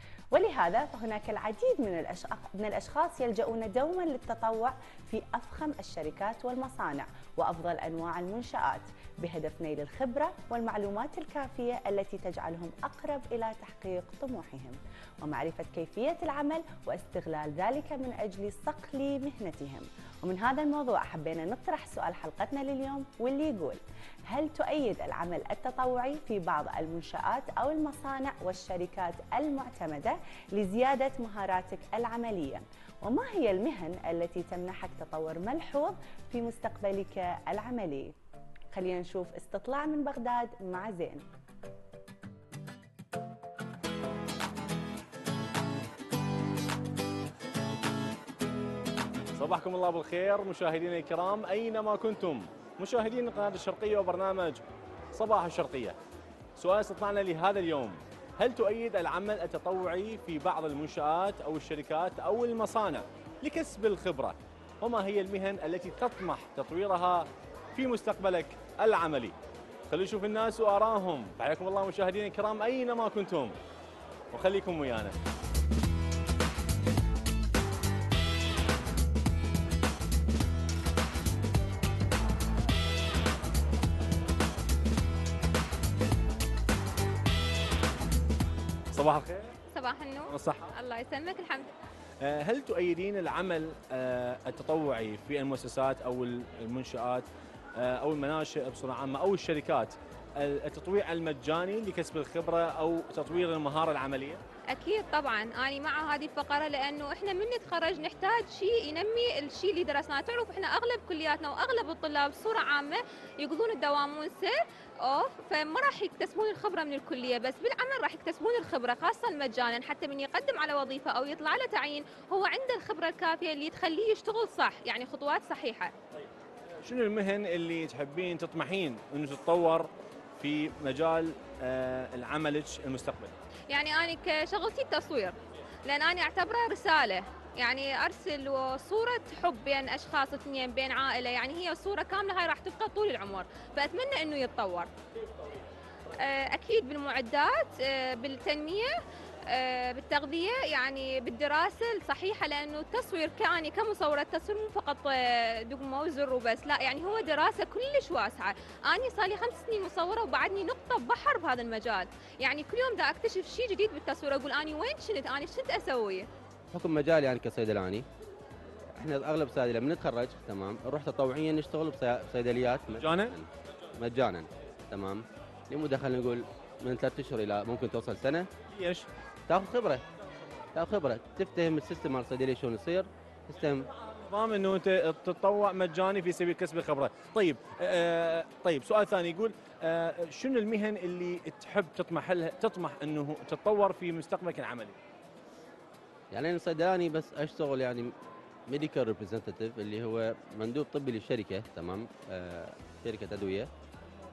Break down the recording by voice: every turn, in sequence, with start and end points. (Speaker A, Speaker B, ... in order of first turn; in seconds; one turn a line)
Speaker A: 0.3-38.1
Speaker A: 38.7-41.2
Speaker B: 49.4-56.0
Speaker B: 56.6-69.3
Speaker B: 69.9-73.6
Speaker B: 74.3-75.1
Speaker B: 88.9-89.5
Speaker C: 89.7-91.7
Speaker B: 90.3-90.7
Speaker B: 92.2-97.3
Speaker B: 97.8-104.4
Speaker C: 104.7-125.9
Speaker B: 126.8-133.3
Speaker C: 133.7-144.9
Speaker C: 146.2-148.9
Speaker C: 149.5-166.3
Speaker D: 166.7-168.0
Speaker D: 169.0-173.5
Speaker B: 173.0-173.3
Speaker D: 174.0-178.5
Speaker B: 178.8-179.1
Speaker D: 179.5-180.0
Speaker D: 180.8-183.8
Speaker B: 184.3-195.0
Speaker D: 196.3-198.1
Speaker D: 198.7-203.7